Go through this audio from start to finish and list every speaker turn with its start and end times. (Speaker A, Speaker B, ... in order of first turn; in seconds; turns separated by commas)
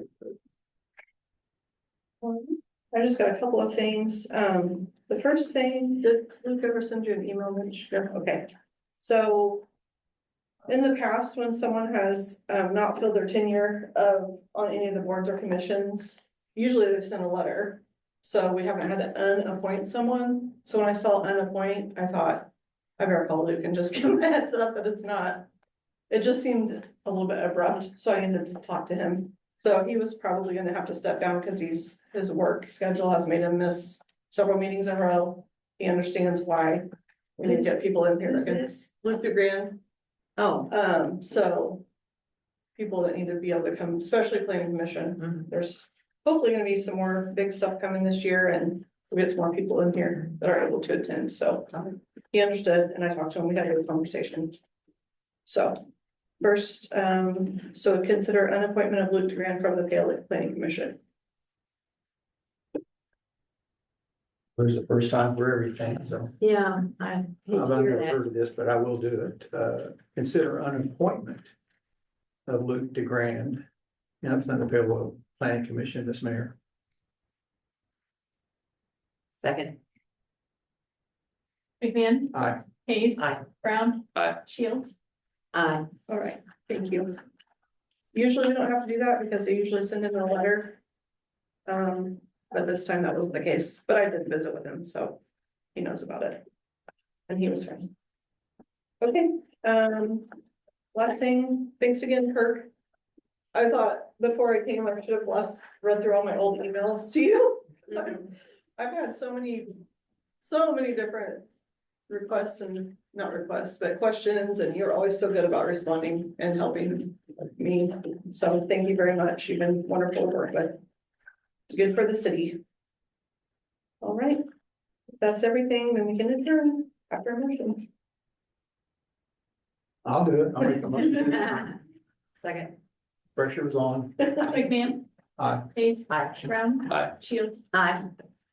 Speaker A: 2.2-9.7, Speaker A: 10.7-25.5, Speaker A: 26.1-39.8, Speaker B: 38.2-38.8, Speaker B: 40.4-40.7, Speaker A: 40.7-41.8, Speaker A: 42.7-54.6, Speaker A: 55.4-55.8, Speaker A: 56.4-61.0, Speaker C: 64.6-66.3, Speaker B: 66.4-68.2, Speaker C: 67.5-71.5, Speaker C: 72.5-73.6, Speaker C: 74.2-76.5, Speaker B: 79.4-79.8, Speaker D: 81.8-84.9, Speaker C: 82.3-82.7, Speaker B: 83.2-83.4, Speaker B: 85.5-85.9, Speaker A: 86.1-87.2, Speaker A: 88.1-90.8, Speaker A: 91.7-95.2, Speaker A: 95.7-96.4, Speaker A: 97.3-97.9, Speaker A: 99.0-100.3, Speaker A: 100.9-102.7, Speaker A: 103.5-109.8, Speaker A: 110.4-111.5, Speaker A: 112.1-120.8, Speaker A: 121.7-122.6, Speaker A: 124.0-124.4, Speaker A: 125.2-127.9, Speaker C: 130.0-131.7, Speaker B: 131.2-131.8, Speaker B: 132.4-132.7, Speaker C: 133.3-134.5, Speaker D: 134.4-135.0, Speaker C: 135.4-135.7, Speaker D: 135.7-137.6, Speaker B: 136.1-136.4, Speaker B: 137.7-138.1